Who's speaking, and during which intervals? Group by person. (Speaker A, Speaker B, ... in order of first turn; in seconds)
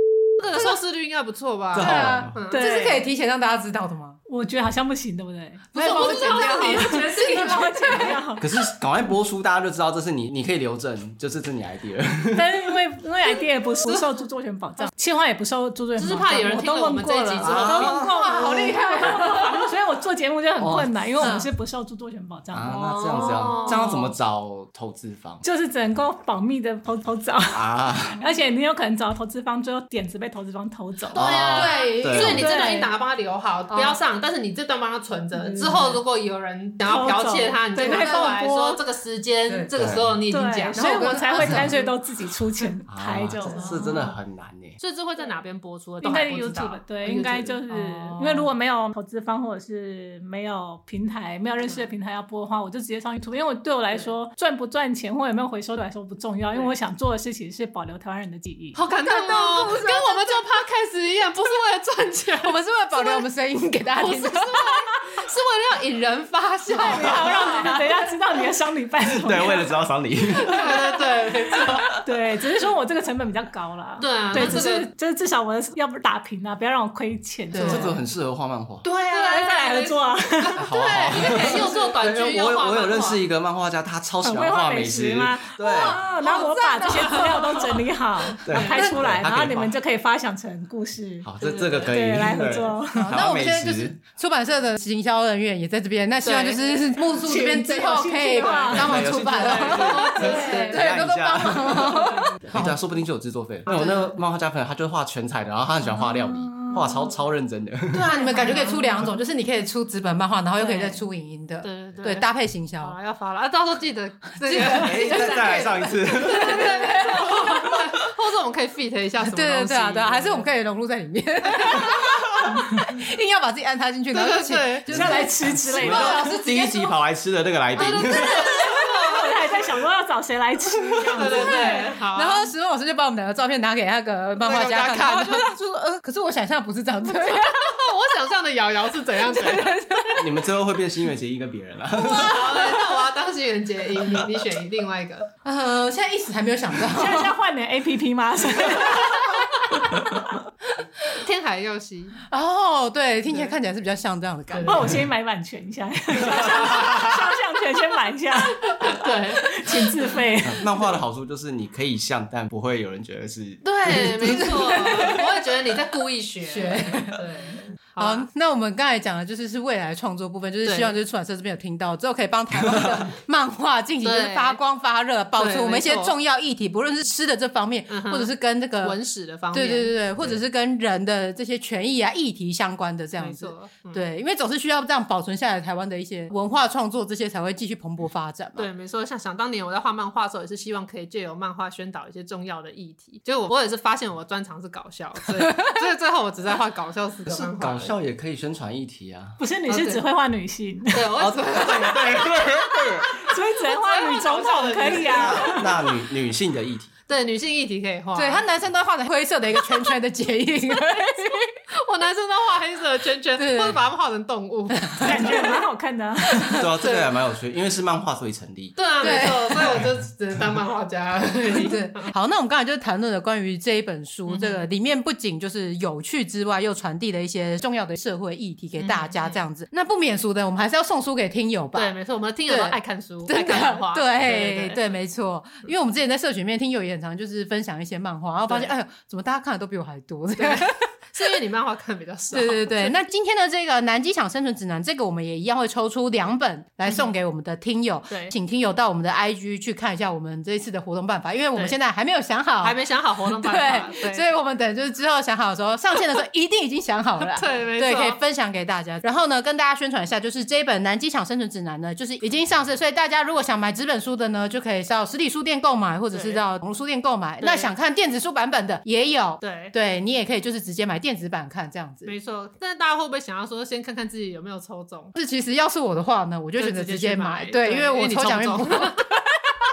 Speaker A: 0.4-2.6, 5.8-8.1, 16.0-18.0, 22.8-24.1, 31.1-41.9, 43.5-44.0, 44.8-47.6, 58.8-63.3, 64.0-67.8, 70.4-71.9, 74.0-74.9, 79.0-83.2, 88.5-88.8, 91.4-92.0, 96.2-100.8, 101.8-102.1, 103.7-104.1, 108.3-108.8, 110.6-111.0, 111.6-112.3, 112.8-120.5, 121.5-122.0, 124.1-124.9, 127.8-129.6, 131.2-132.5, 134.4-135.5, 137.1-139.8, 142.0-145.3, 151.1-152.2, 153.3-153.6, 154.5-155.0, 156.3-156.8, 158.7-159.6, 163.6-168.3, 170.7-170.9, 174.0-174.6, 175.4-176.1, 177.9-180.3, 183.2-184.1, 188.6-197.9, 199.7-200.0, 200.9-202.6, 203.6-205.8, 207.1-208.4, 211.1-215.3, 216.8-217.2, 218.8-222.1, 224.3-224.7, 228.8-229.4, 231.8-234.8, 240.4-243.0, 246.9-247.1, 248.1-248.3, 252.6-254.3, 257.3-258.2, 266.1-266.4, 267.4-267.7, 269.4-269.8, 272.1-275.1, 276.6-279.1
Speaker B: 1.7-2.4, 8.4-12.5, 17.4-18.1, 20.6-20.9, 22.5-25.4, 27.5-28.2, 31.1-32.6, 39.8-40.1, 42.9-44.8, 69.1-71.8, 77.6-78.9, 80.6-86.0, 88.5-89.7, 91.2-94.0, 98.7-108.2, 114.7-116.6, 124.9-128.8, 140.2-142.7, 160.4-164.7, 197.3-199.4, 201.2-203.2, 205.1-206.9, 216.5-219.1
Speaker C: 1.7-4.2, 5.7-8.2, 17.6-19.7, 21.2-21.5, 31.4-32.9, 33.7-34.0, 37.8-38.3, 39.5-39.7, 40.7-41.8, 43.5-44.1, 47.7-48.5, 59.1-60.5, 62.4-64.7, 66.9-68.0, 74.3-74.6, 77.5-78.0, 78.8-79.6, 81.3-81.7, 85.7-87.8, 88.7-89.1, 93.0-102.8, 103.7-104.1, 107.9-113.0, 114.4-117.8, 119.2-127.0, 131.1-137.8, 139.2-140.5, 142.1-142.7, 145.4-147.4, 148.8-149.4, 152.3-155.0, 164.1-165.5, 166.4-167.3, 168.0-179.0, 179.5-188.7, 208.2-211.5, 213.4-213.8, 214.7-215.6, 216.3-216.7, 219.0-219.8, 221.5-240.8, 242.3-272.1, 275.2-279.4
Speaker D: 2.5-3.0, 4.3-8.4, 12.3-24.0, 25.4-31.2, 32.2-32.9, 35.4-36.0, 36.9-38.8, 40.3-43.6, 46.0-58.8, 66.8-69.8, 72.0-77.9, 79.1-80.7, 84.2-91.3, 91.8-93.2, 97.2-99.1, 99.8-100.6, 124.9-126.3, 128.5-131.9, 146.9-149.3, 154.7-160.6, 199.4-201.1, 203.2-205.7, 215.0-216.6